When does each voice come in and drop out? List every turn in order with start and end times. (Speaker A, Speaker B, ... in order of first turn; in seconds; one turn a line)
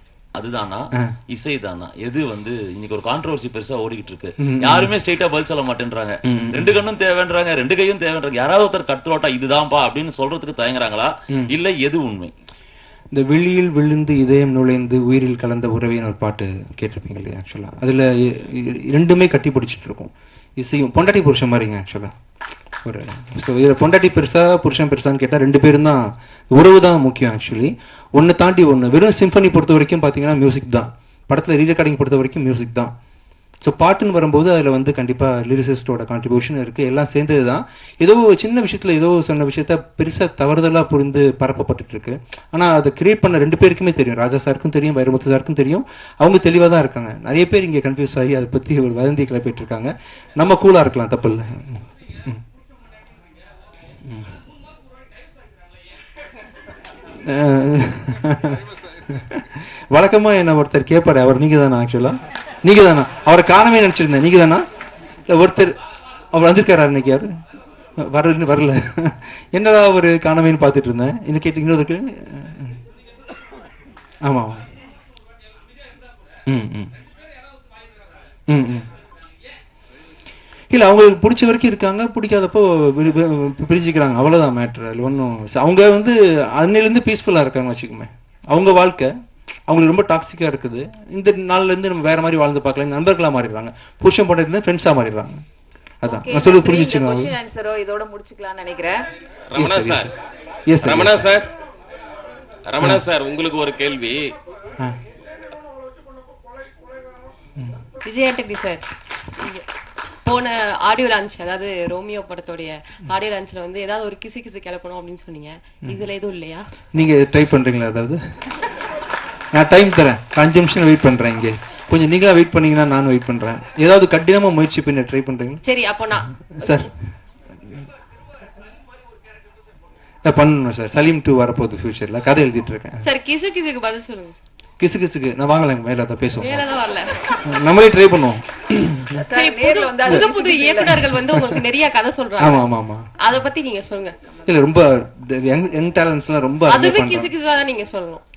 Speaker A: 0.3-12.3
Speaker B: 4.4-4.9
Speaker B: 6.2-6.8
Speaker B: 13.1-22.1
Speaker B: 22.8-32.9
Speaker B: 33.6-52.4
Speaker B: 54.0-54.3
Speaker B: 57.2-64.7
Speaker B: 65.3-65.8
Speaker B: 66.3-67.3
Speaker B: 68.0-72.8
Speaker B: 74.2-74.7
Speaker B: 76.5-76.9
Speaker B: 78.5-78.9
Speaker B: 80.7-89.1
Speaker B: 89.7-95.4
Speaker B: 96.0-97.3
Speaker C: 96.0-99.1
Speaker D: 99.5-100.1
Speaker B: 99.5-100.1
Speaker B: 100.7-101.3
Speaker D: 100.8-101.5
Speaker D: 102.7-104.3
Speaker E: 108.0-108.8
Speaker E: 109.4-109.7
Speaker E: 110.2-116.7
Speaker B: 116.9-118.2
Speaker B: 119.5-125.6
Speaker E: 125.6-126.9
Speaker B: 126.5-126.9
Speaker B: 130.2-133.0
Speaker E: 133.0-134.4
Speaker B: 134.8-136.7
Speaker E: 136.4-137.4
Speaker B: 137.4-139.2
Speaker C: 139.1-141.0
Speaker E: 139.2-142.7
Speaker B: 140.8-141.6
Speaker B: 142.4-143.1
Speaker E: 143.2-144.2
Speaker B: 144.4-147.3
Speaker E: 146.7-148.2